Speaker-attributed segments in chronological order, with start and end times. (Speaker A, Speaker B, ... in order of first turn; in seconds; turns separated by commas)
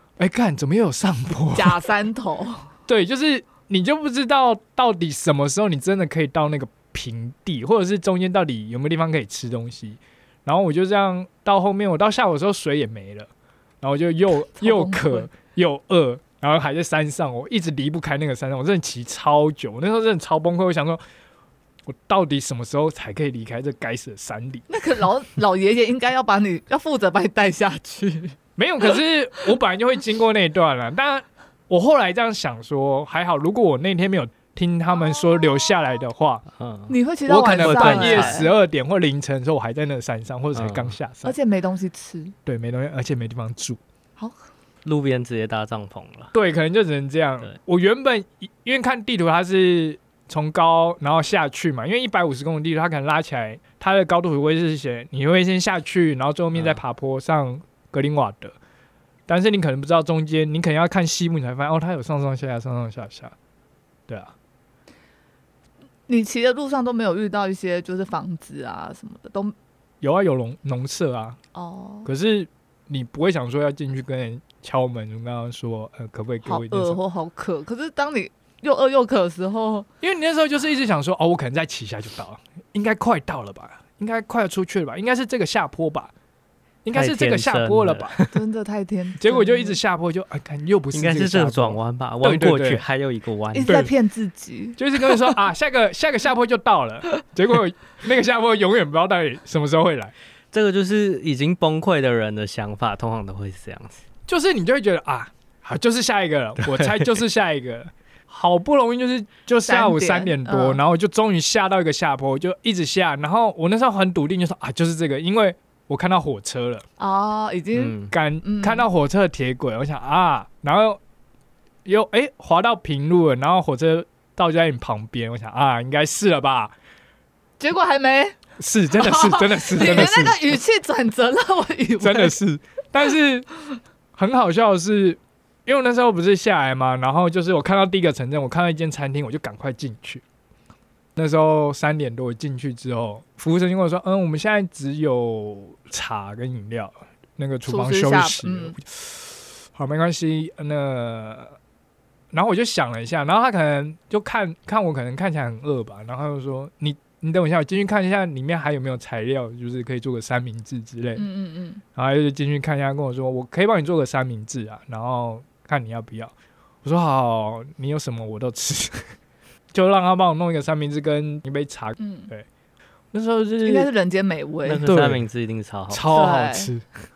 Speaker A: 0.2-1.8, Speaker B: 1.5-2.7, Speaker A: 2.9-13.3, Speaker A: 13.8-21.0, Speaker B: 14.6-15.3, Speaker A: 21.9-24.7, Speaker B: 24.7-28.9, Speaker A: 28.6-36.5, Speaker C: 36.6-37.0, Speaker B: 36.9-38.5, Speaker A: 37.3-41.4, Speaker C: 37.6-38.4, Speaker C: 40.5-41.0, Speaker B: 41.2-42.3, Speaker A: 42.5-43.8, Speaker C: 44.9-46.3, Speaker A: 46.3-58.6, Speaker A: 59.3-63.4, Speaker A: 64.1-64.3, Speaker B: 66.1-69.5, Speaker A: 70.0-71.4, Speaker B: 71.5-72.1, Speaker A: 72.0-77.0, Speaker B: 76.5-79.9, Speaker A: 80.0-86.1, Speaker A: 86.8-88.2, Speaker C: 86.9-88.3, Speaker B: 88.3-89.8, Speaker A: 89.2-92.8, Speaker C: 90.9-93.7, Speaker B: 93.5-95.1, Speaker A: 93.7-93.9, Speaker A: 94.8-100.1, Speaker C: 100.5-104.0, Speaker A: 104.3-116.8, Speaker C: 106.7-107.0, Speaker B: 109.7-110.8, Speaker B: 117.0-118.9, Speaker C: 117.8-118.1, Speaker A: 118.0-121.0, Speaker A: 121.8-126.7, Speaker B: 127.6-128.4, Speaker A: 128.6-130.6, Speaker B: 128.9-132.4, Speaker A: 132.0-133.5, Speaker A: 134.2-140.2, Speaker A: 141.2-151.6, Speaker B: 147.7-148.8, Speaker A: 152.3-161.3, Speaker B: 161.2-161.8, Speaker A: 161.9-166.3, Speaker A: 166.8-169.1, Speaker A: 169.7-172.5, Speaker B: 172.0-172.3, Speaker A: 173.1-173.9, Speaker B: 173.6-174.9, Speaker C: 174.7-176.2, Speaker A: 174.8-175.2, Speaker A: 175.9-176.9, Speaker B: 176.1-176.7